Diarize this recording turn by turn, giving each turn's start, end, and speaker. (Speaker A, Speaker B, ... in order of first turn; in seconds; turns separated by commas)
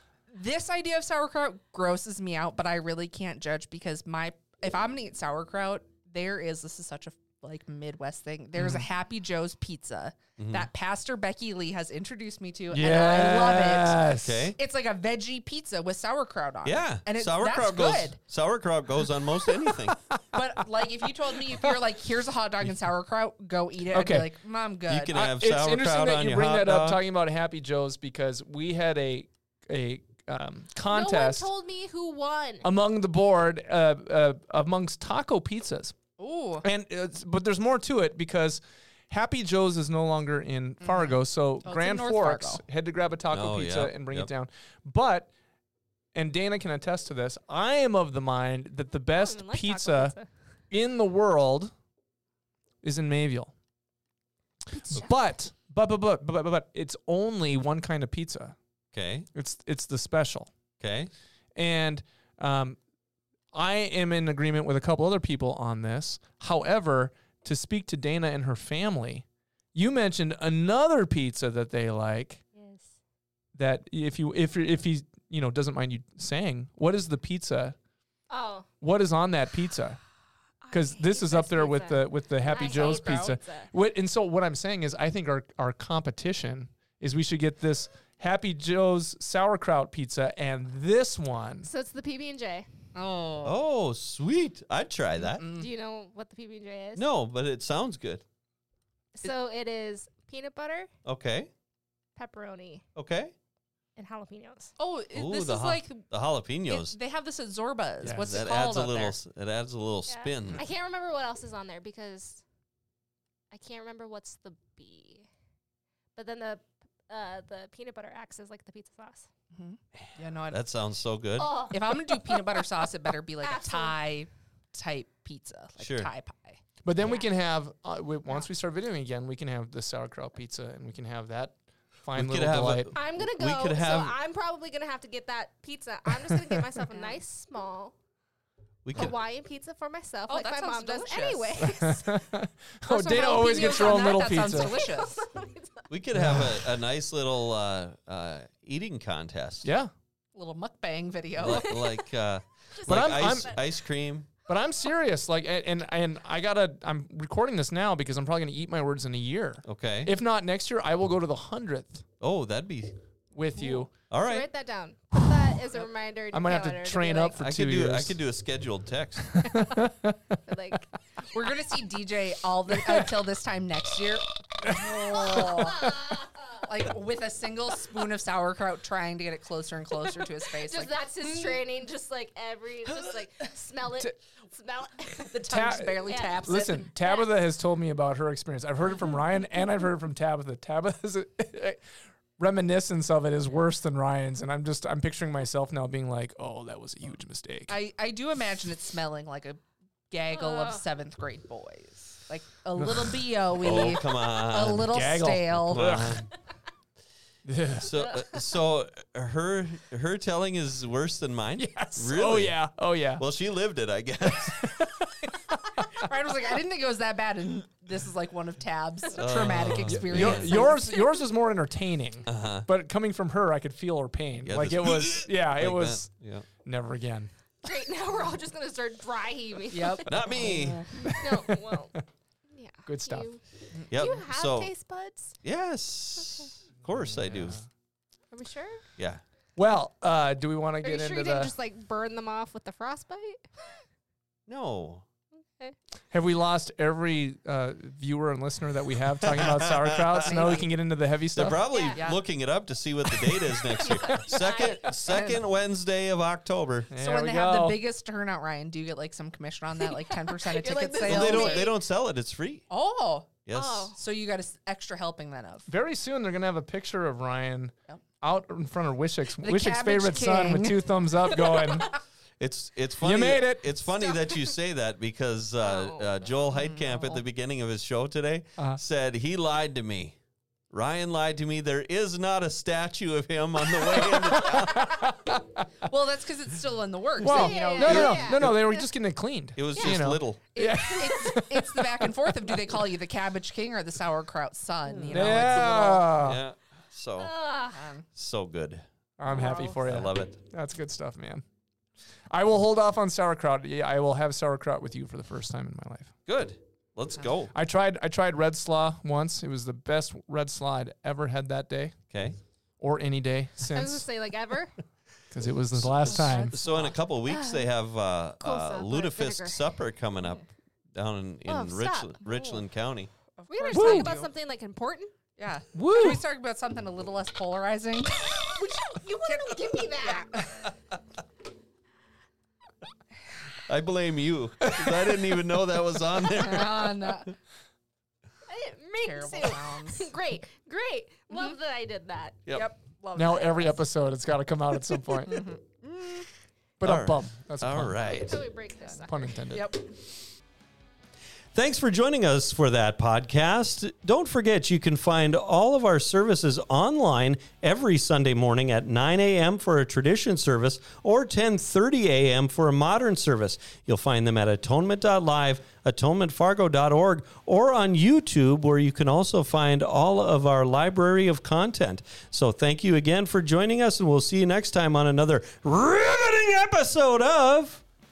Speaker A: 0.3-14.0, Speaker B: 8.6-8.8, Speaker C: 10.4-10.7, Speaker B: 12.7-14.5, Speaker C: 14.2-14.6, Speaker A: 14.6-18.2, Speaker C: 16.6-19.9, Speaker B: 19.4-20.4, Speaker A: 20.3-25.1, Speaker B: 23.9-24.3, Speaker C: 24.9-27.0, Speaker B: 25.1-31.5, Speaker D: 30.9-32.6, Speaker B: 32.6-36.0, Speaker A: 36.2-36.6, Speaker B: 36.6-45.3, Speaker A: 40.8-42.6, Speaker C: 43.3-44.3, Speaker B: 46.1-50.1, Speaker D: 49.1-50.3, Speaker B: 50.7-51.7, Speaker B: 52.8-53.5, Speaker B: 54.7-58.5, Speaker C: 58.9-59.3, Speaker B: 59.3-60.5, Speaker C: 60.8-61.1, Speaker B: 61.5-62.8, Speaker B: 63.5-72.4, Speaker D: 72.5-72.9, Speaker B: 73.5-77.8, Speaker D: 78.3-78.7, Speaker B: 78.8-80.0, Speaker D: 80.6-83.7, Speaker B: 80.7-91.7, Speaker A: 82.5-83.4, Speaker D: 91.6-92.7, Speaker A: 92.9-93.6, Speaker C: 93.4-95.5, Speaker A: 95.2-95.7, Speaker D: 95.6-97.0, Speaker C: 97.0-98.2, Speaker D: 99.2-100.9, Speaker C: 101.0-101.5, Speaker D: 102.2-102.8, Speaker C: 103.0-103.3, Speaker D: 104.0-104.7, Speaker A: 104.8-106.0, Speaker C: 105.1-107.0, Speaker A: 106.7-109.2, Speaker B: 108.0-108.4, Speaker C: 108.2-110.6, Speaker D: 110.1-112.4, Speaker D: 113.5-115.3, Speaker D: 116.2-119.3, Speaker A: 119.5-120.6, Speaker C: 120.5-121.5, Speaker D: 121.4-122.7, Speaker A: 121.7-126.6, Speaker D: 123.4-124.0, Speaker C: 125.8-126.1, Speaker B: 126.8-132.9, Speaker C: 132.1-134.2, Speaker D: 132.9-137.9, Speaker A: 136.9-137.2, Speaker C: 138.8-139.2, Speaker D: 138.9-142.2, Speaker A: 140.3-141.6, Speaker B: 141.6-144.9, Speaker A: 142.9-145.2, Speaker D: 143.1-145.9, Speaker C: 145.9-149.7, Speaker B: 146.1-146.7, Speaker B: 149.6-149.9, Speaker A: 150.3-151.9, Speaker C: 151.3-154.3, Speaker B: 152.8-153.6, Speaker B: 154.5-162.0, Speaker C: 159.6-160.1, Speaker C: 162.2-162.9, Speaker B: 163.3-163.9, Speaker C: 164.1-164.5, Speaker D: 164.2-167.4, Speaker B: 166.3-168.2, Speaker C: 167.4-169.3, Speaker B: 169.3-170.4, Speaker D: 170.4-170.9, Speaker A: 171.2-175.9, Speaker B: 174.6-175.7, Speaker D: 175.8-176.5, Speaker A: 176.6-181.6, Speaker D: 180.6-185.3, Speaker A: 185.3-186.9, Speaker B: 185.5-191.8, Speaker D: 186.1-187.3, Speaker B: 192.4-197.7, Speaker A: 197.7-199.6, Speaker A: 200.1-205.8, Speaker D: 200.3-200.8, Speaker B: 202.8-203.2, Speaker C: 203.6-204.9, Speaker B: 204.9-206.2, Speaker C: 205.6-206.3, Speaker B: 207.4-207.9, Speaker C: 207.8-214.6, Speaker B: 211.6-213.2, Speaker B: 214.3-215.9, Speaker A: 215.9-221.1, Speaker C: 219.1-220.7, Speaker B: 219.8-226.1, Speaker C: 222.2-222.7, Speaker C: 224.4-226.5, Speaker B: 226.6-227.3, Speaker D: 227.6-230.1, Speaker A: 229.7-230.9, Speaker C: 230.1-230.9, Speaker D: 231.0-232.0, Speaker B: 231.1-231.6, Speaker D: 232.5-235.4, Speaker B: 232.8-233.3, Speaker C: 233.9-234.7, Speaker C: 235.4-237.6, Speaker D: 236.2-236.5, Speaker B: 236.9-237.6, Speaker D: 238.3-238.8, Speaker C: 239.0-239.2, Speaker B: 239.6-241.5, Speaker D: 240.8-243.8, Speaker C: 244.5-245.0, Speaker B: 246.1-251.6, Speaker C: 249.3-249.6, Speaker C: 250.2-250.6, Speaker A: 250.2-250.7, Speaker C: 251.3-256.9, Speaker D: 251.7-252.0, Speaker A: 251.9-252.2, Speaker B: 253.1-254.4, Speaker A: 253.8-255.4, Speaker D: 254.3-254.9, Speaker B: 256.9-257.8, Speaker A: 256.9-261.7, Speaker D: 259.8-261.7, Speaker C: 261.0-262.7, Speaker A: 262.7-263.4, Speaker C: 263.4-263.9, Speaker D: 263.5-264.0, Speaker A: 263.9-265.7, Speaker B: 265.7-271.9, Speaker A: 269.3-271.9, Speaker C: 272.4-280.2, Speaker B: 273.0-273.8, Speaker D: 274.1-274.4, Speaker D: 275.6-276.3, Speaker A: 276.5-277.2, Speaker C: 280.7-284.9, Speaker B: 283.7-285.6, Speaker A: 285.9-288.4, Speaker B: 287.2-292.5, Speaker D: 287.2-288.5, Speaker C: 287.8-288.7, Speaker C: 289.6-290.4, Speaker A: 290.5-296.1, Speaker B: 295.0-296.4, Speaker C: 295.4-297.3, Speaker D: 297.2-297.8, Speaker A: 297.7-298.1, Speaker C: 298.1-300.4, Speaker B: 299.2-301.4, Speaker B: 302.3-306.1, Speaker C: 306.2-307.5, Speaker B: 307.5-312.0, Speaker C: 312.1-312.4, Speaker B: 312.8-314.1, Speaker D: 313.7-314.8, Speaker B: 315.3-316.6, Speaker C: 315.7-323.1, Speaker A: 316.1-317.0, Speaker D: 317.2-317.7, Speaker D: 318.4-319.7, Speaker D: 321.5-322.6, Speaker A: 323.4-324.3, Speaker D: 323.5-325.1, Speaker B: 323.7-324.1, Speaker A: 325.4-330.6, Speaker B: 325.7-326.2, Speaker D: 328.6-330.3, Speaker C: 333.7-337.2, Speaker B: 334.9-335.2, Speaker A: 336.3-337.3, Speaker D: 338.5-342.4, Speaker A: 339.0-340.1, Speaker A: 341.3-341.6, Speaker C: 342.4-342.7, Speaker A: 342.5-343.8, Speaker B: 343.1-345.4, Speaker A: 344.9-346.3, Speaker B: 346.8-348.3, Speaker C: 346.8-348.5, Speaker D: 348.1-349.4, Speaker A: 348.8-349.9, Speaker B: 349.0-349.7, Speaker C: 351.5-377.8